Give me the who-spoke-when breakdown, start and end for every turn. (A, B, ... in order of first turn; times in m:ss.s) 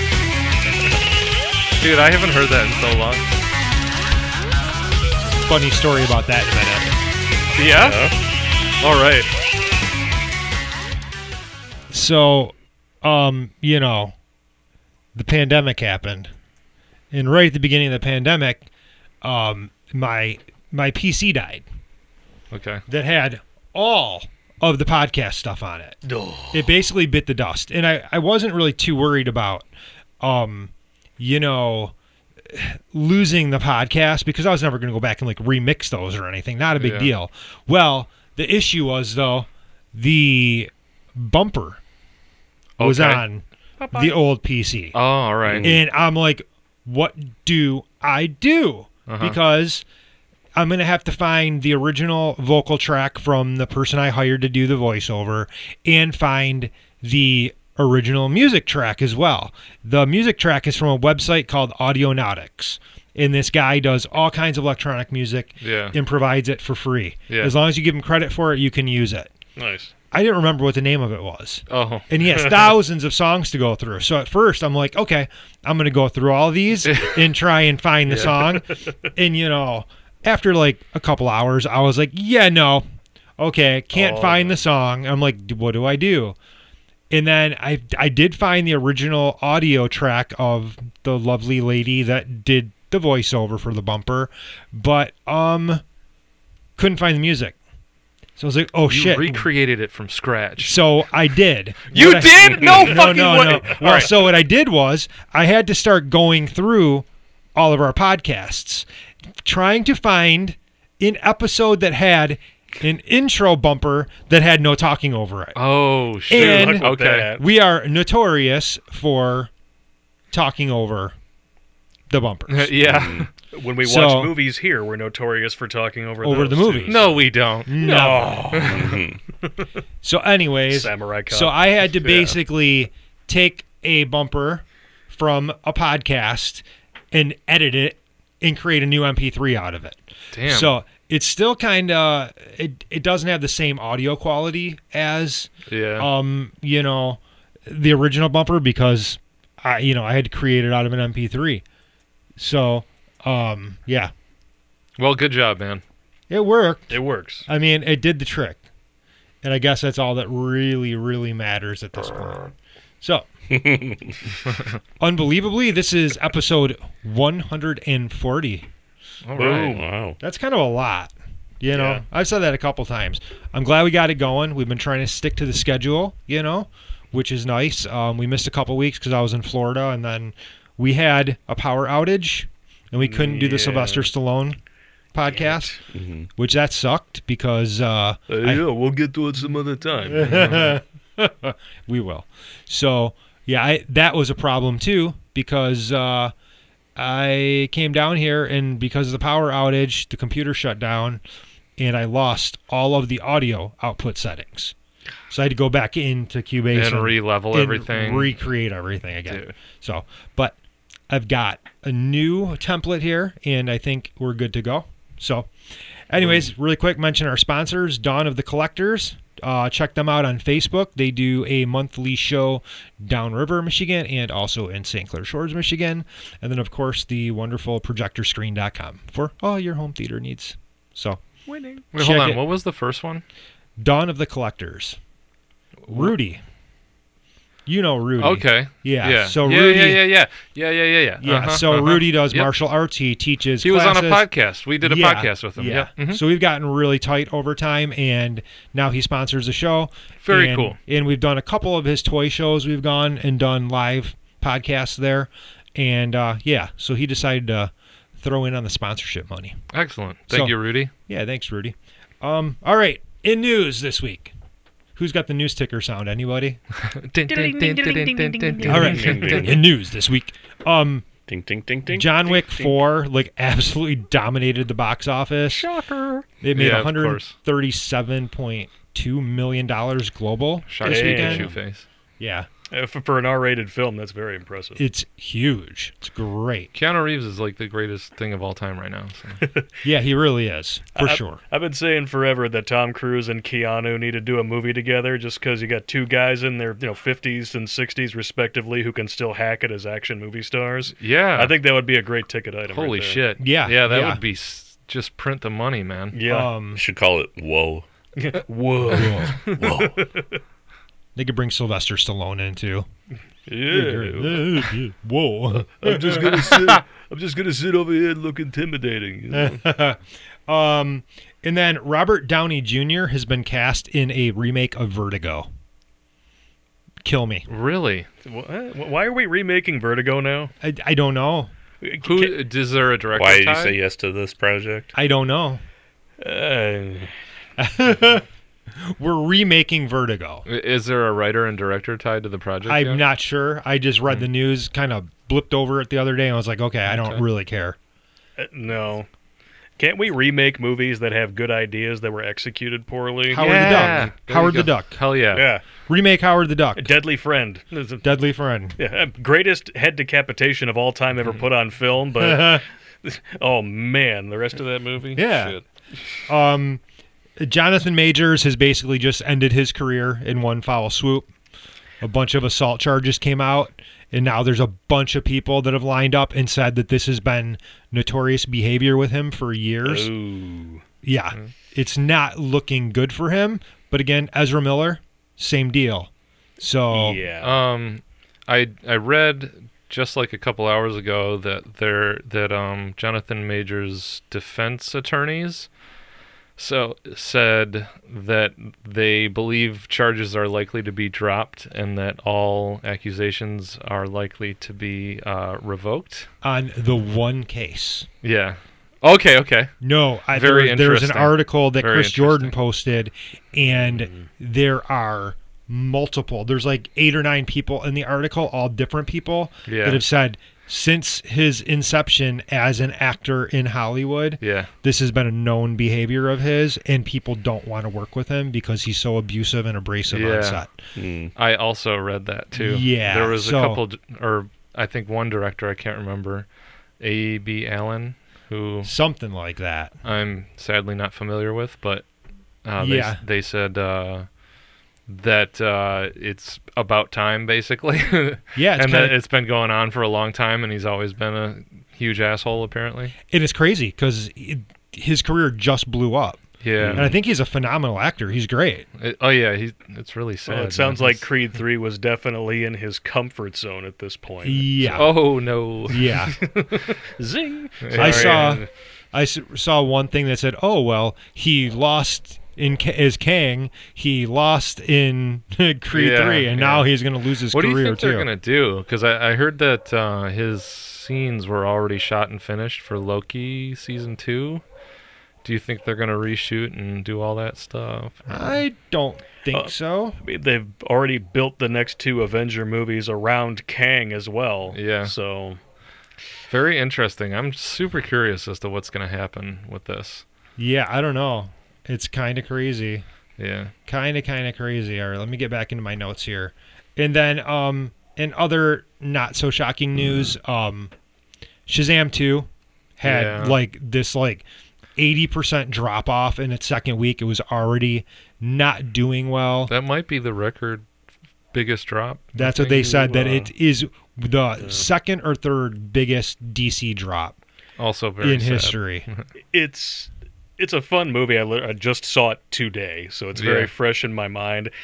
0:01.7-0:03.3 A
0:05.4-0:06.9 B
0:07.6-0:08.0 A
0:07.8-0:08.1 C
0:08.8-0:09.3 A
0:11.9-0:14.1 B
0:15.1-0:16.3 B
0:17.1-0:18.6 B
0:19.2-0:21.6 B
0:22.5-0:22.8 A
0:22.9-0:26.0 B
0:26.0-0:26.8 D
0:26.5-0:29.7 B
0:30.2-0:31.9 B
0:32.4-0:41.8 B
0:36.8-0:37.1 A
0:42.8-0:43.2 A
0:42.8-0:45.0 B
0:44.9-0:45.8 A
0:45.5-0:45.7 C
0:45.6-0:49.8 B
0:49.1-0:49.4 A
0:50.5-1:09.3 B
1:05.6-1:06.0 A
1:07.3-1:07.5 A
1:09.6-1:09.9 D
1:10.1-1:22.8 B
1:11.7-1:12.1 A
1:16.8-1:17.2 A
1:18.1-1:18.4 A
1:23.4-1:26.4 B
1:23.9-1:24.6 D
1:27.1-1:35.8 B
1:36.8-1:37.6 B
1:38.4-1:39.5 B
1:38.9-1:40.8 A
1:40.6-1:48.8 B
1:41.9-1:44.1 A
1:42.0-1:43.1 D
1:49.4-1:55.6 B
1:55.5-1:57.3 A
1:56.3-1:59.5 B
1:56.3-1:57.4 D
2:00.3-2:01.1 B
2:02.1-2:02.8 B
2:02.5-2:03.3 A
2:02.8-2:03.3 C
2:03.5-2:07.1 D
2:03.8-2:04.3 B
2:06.2-2:07.1 B
2:06.9-2:08.8 A
2:07.6-2:08.7 B
2:07.8-2:09.5 D
2:08.7-2:09.2 C
2:10.0-2:31.6 B
2:10.7-2:12.4 D
2:20.3-2:20.8 A
2:25.7-2:26.1 A
2:32.4-2:34.1 B
2:35.0-2:35.8 A
2:36.3-2:38.6 B
2:36.9-2:37.4 D
2:39.4-2:42.4 B
2:43.0-2:43.3 B
2:43.5-2:44.1 C
2:45.0-2:48.7 B
2:49.2-2:49.8 A
2:49.4-2:49.8 D
2:49.5-2:50.2 C
2:50.2-3:04.6 B
2:51.7-2:52.0 D
3:03.0-3:04.1 D
3:05.1-3:05.8 B
3:05.3-3:05.8 D
3:05.9-3:06.3 C
3:06.4-3:08.6 B
3:08.3-3:10.5 D
3:10.1-3:16.3 B
3:10.3-3:10.8 A
3:17.0-3:21.2 B
3:21.8-3:24.7 B
3:25.3-3:30.6 B
3:26.7-3:28.4 A
3:29.3-3:29.6 A
3:31.1-3:35.5 B
3:36.1-3:51.2 B
3:51.5-3:51.8 D
3:51.9-3:52.4 B
3:51.9-3:53.2 A
3:53.8-3:55.0 B
3:55.8-3:56.1 A
3:55.9-3:56.4 B
3:57.6-4:00.0 B
3:58.2-4:02.5 A
4:01.2-4:04.3 B
4:03.6-4:06.2 A
4:04.8-4:19.6 B
4:10.2-4:10.8 A
4:19.7-4:20.9 A
4:20.3-4:20.5 B
4:21.1-4:24.3 B
4:25.0-4:26.6 B
4:26.9-4:29.5 A
4:27.3-4:29.2 D
4:28.6-4:31.1 B
4:28.8-4:29.6 C
4:31.2-4:32.1 C
4:31.9-4:35.7 B
4:32.3-4:32.7 D
4:35.5-4:36.2 D
4:36.4-4:41.5 B
4:36.5-4:37.3 A
4:40.7-4:41.9 A
4:40.8-4:41.5 D
4:42.2-4:42.5 B
4:42.7-4:44.8 D
4:44.8-4:46.7 B
4:46.7-4:49.4 A
4:49.4-4:49.7 D
4:49.8-4:51.4 B
4:50.9-5:03.2 D
5:01.0-5:01.5 A
5:02.7-5:06.2 A
5:03.4-5:04.2 B
5:06.1-5:06.5 D
5:06.2-5:06.8 B
5:06.8-5:07.8 C
5:08.2-5:10.4 D
5:08.9-5:09.4 B
5:09.6-5:09.9 C
5:11.2-5:12.9 B
5:13.5-5:14.7 D
5:13.7-5:16.8 B
5:15.8-5:19.6 D
5:19.3-5:25.5 B
5:27.0-5:27.5 B
5:27.5-5:28.1 A
5:28.2-5:30.5 D
5:30.6-5:31.5 B
5:31.8-5:32.4 D
5:32.0-5:33.8 A
5:33.1-5:34.9 C
5:34.9-5:35.6 B
5:36.2-5:37.1 D
5:37.6-5:38.2 B
5:38.8-5:40.4 B
5:40.5-5:43.0 A
5:42.6-5:47.8 B
5:46.9-5:47.2 A
5:48.4-5:49.1 D
5:49.8-5:54.0 D
5:53.3-5:55.0 B
5:53.3-5:55.4 A
5:55.3-5:55.6 D
5:55.9-5:57.0 B
5:56.8-5:58.0 D
5:58.0-5:58.8 B
5:58.8-6:06.2 D
6:02.2-6:02.6 B
6:05.1-6:05.6 B
6:06.3-6:06.8 B
6:07.4-6:11.3 B
6:12.0-6:20.1 B
6:19.8-6:20.8 D
6:21.0-6:27.2 B
6:26.9-6:27.5 D
6:27.4-6:35.7 A
6:36.6-6:46.3 A
6:46.4-6:48.1 B
6:48.2-6:49.7 A
6:49.8-7:10.8 B
6:50.3-6:52.5 A
6:53.9-6:54.3 D
6:59.7-7:00.0 A
7:04.4-7:04.7 A
7:10.1-7:10.6 A
7:10.9-7:11.3 C
7:11.3-7:16.5 A
7:12.5-7:13.8 B
7:17.0-7:18.9 A
7:18.8-7:19.9 B
7:20.0-7:22.0 A
7:22.6-7:24.2 A
7:22.8-7:23.2 B
7:25.1-7:33.1 A
7:28.6-7:29.2 B
7:33.3-7:38.9 B
7:36.6-7:37.1 A
7:36.8-7:37.1 C
7:39.0-7:41.2 A
7:40.5-7:45.0 D
7:44.4-7:45.2 B
7:44.9-7:46.3 A
7:45.9-7:46.4 B
7:46.0-7:48.7 D
7:47.8-7:48.5 A
7:48.0-7:58.3 B
7:55.9-7:56.9 A
7:57.5-8:04.6 A
8:05.4-8:08.3 A
8:08.3-8:10.2 B
8:09.5-8:15.6 D
8:14.7-8:15.1 A
8:16.5-8:20.2 A
8:20.6-8:23.0 B
8:23.4-8:23.7 A
8:23.9-8:30.9 B
8:31.7-8:34.4 B
8:33.0-8:33.6 A
8:35.0-8:39.7 B
8:39.7-8:40.8 A
8:41.5-8:43.5 A
8:42.3-8:47.4 B
8:47.8-8:49.2 A
8:48.2-8:49.1 B
8:49.5-8:54.7 D
8:53.4-8:53.7 A